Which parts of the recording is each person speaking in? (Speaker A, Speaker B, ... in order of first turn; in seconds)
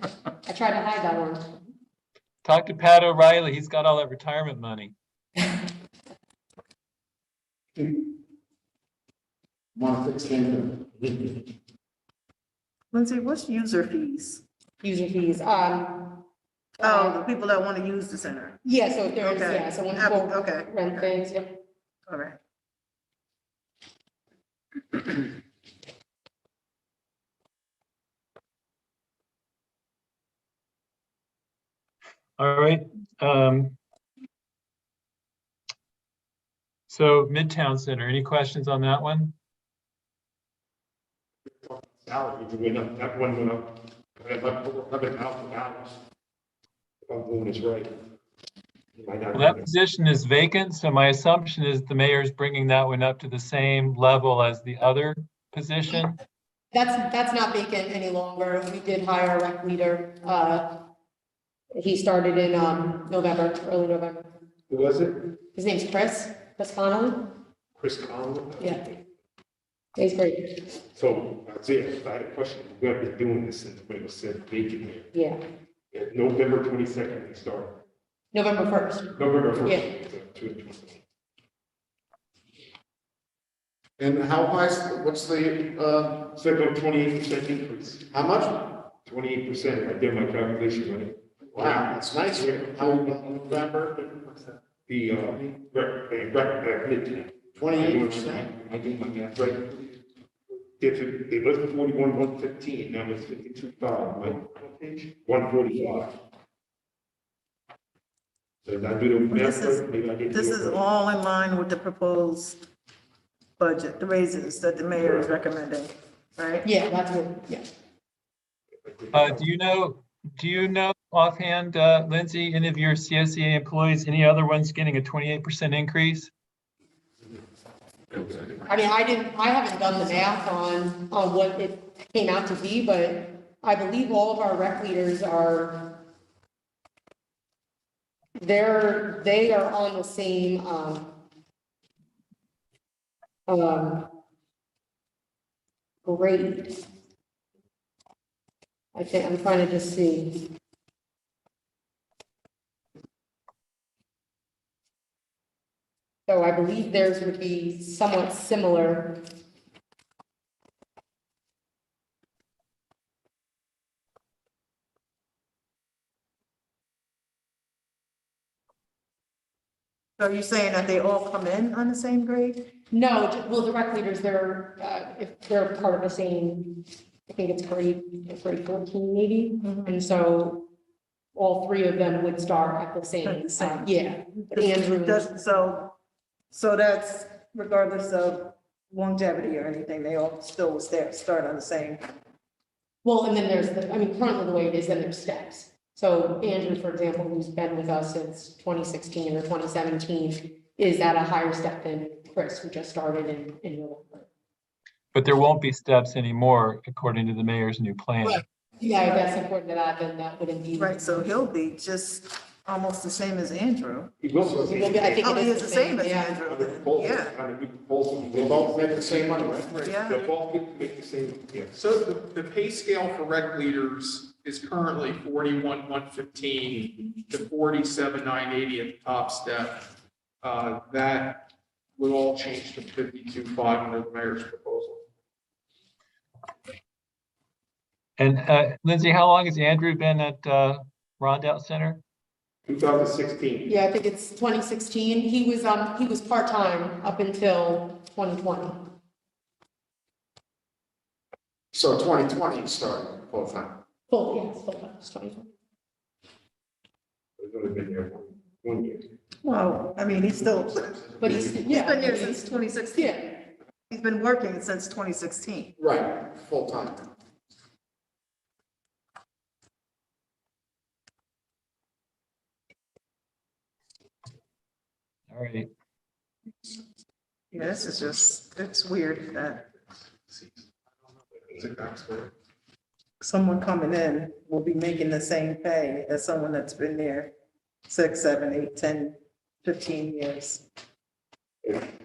Speaker A: 0.5-1.5, 14.8-16.2, 16.8-17.2, 18.6-21.6, 56.7-60.8, 61.7-64.3, 65.5-67.3, 68.6-68.9, 70.0-70.6, 75.1-75.4, 78.3-79.9, 116.6-117.7, 128.7-136.0, 138.4-141.2, 143.5-144.1, 146.0-146.8, 148.9-150.5, 156.3-159.2, 172.9-180.7, 181.3-185.3, 193.0-204.3, 208.8-211.3, 214.7-216.4, 243.7-248.9, 254.1-255.5, 261.2-263.4
Speaker B: 2.4-4.9, 32.4-33.8, 36.9-39.3, 49.3-56.2, 119.1-126.3, 205.1-208.4, 238.2-242.0, 275.3-275.7
Speaker C: 9.8-11.2, 84.0-86.3, 88.1-88.8, 91.5-94.1, 97.5-98.5, 214.5-215.1, 218.3-219.9, 251.7-253.8, 265.8-267.1
Speaker D: 12.9-14.4, 16.8-18.6, 19.2-21.1, 22.1-22.4, 109.3-112.6, 113.6-116.7, 170.2-172.7, 179.6-179.9, 183.2-185.9, 186.5-192.0, 210.8-214.1, 215.2-217.3, 219.8-220.3, 259.4-263.3, 263.9-265.7, 277.5-279.7, 283.2-287.3, 287.9-290.6
Speaker E: 41.5-46.0, 47.0-47.9, 49.0-49.7, 64.7-65.2, 67.8-68.8, 71.0-75.1, 75.9-77.8, 79.1-81.0, 86.3-88.1, 88.9-93.8, 94.9-100.0, 100.8-106.1, 108.6-110.8, 115.0-115.3, 118.8-119.4, 214.2-215.3, 216.4-221.7, 242.7-243.7, 257.4-259.1, 281.4-282.3
Speaker F: 221.7-229.8, 230.4-235.0